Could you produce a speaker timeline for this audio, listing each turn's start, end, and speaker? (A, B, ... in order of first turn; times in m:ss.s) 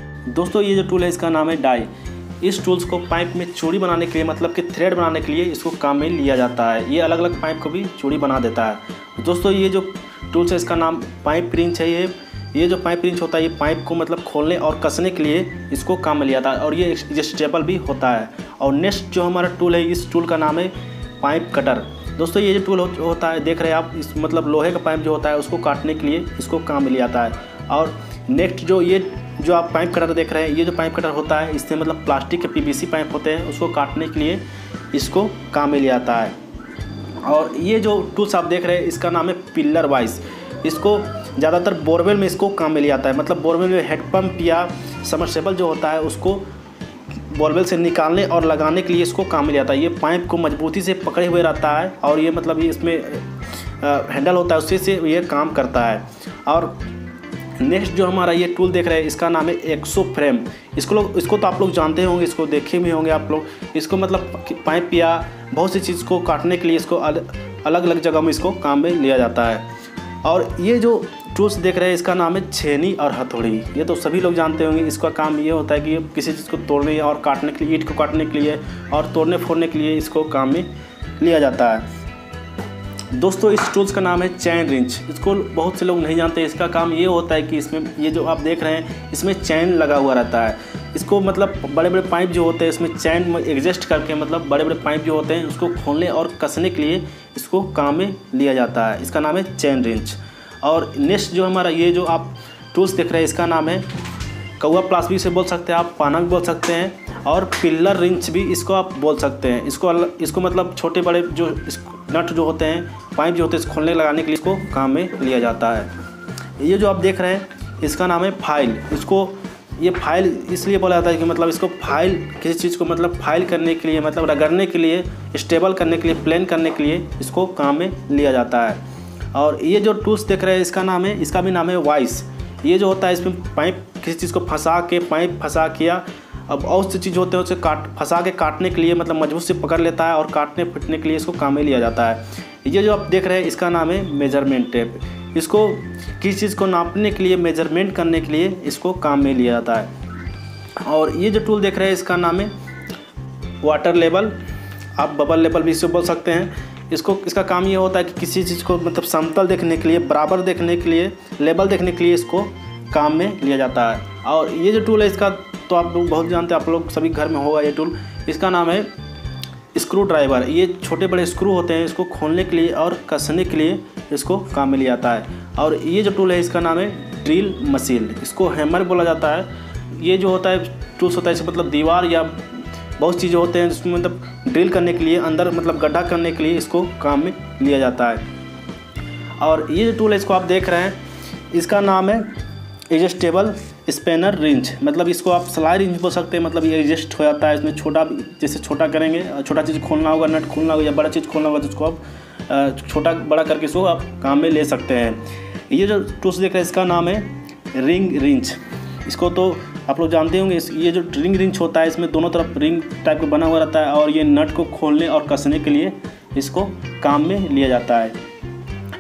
0:00.3-0:01.9 A
0:02.4-0:36.4 A
0:37.2-0:46.5 A
0:47.2-0:53.3 A
0:53.8-0:56.8 A
0:57.6-1:09.7 A
1:10.2-1:20.7 A
1:21.2-1:21.9 A
1:23.1-1:43.8 A
1:44.6-1:55.9 A
1:56.6-2:08.8 A
2:09.3-2:29.9 A
2:30.8-2:32.5 A
2:33.6-2:34.4 A
2:35.0-2:48.9 A
2:49.7-3:08.2 A
3:09.4-3:11.0 A
3:11.5-3:12.3 A
3:12.9-3:38.2 A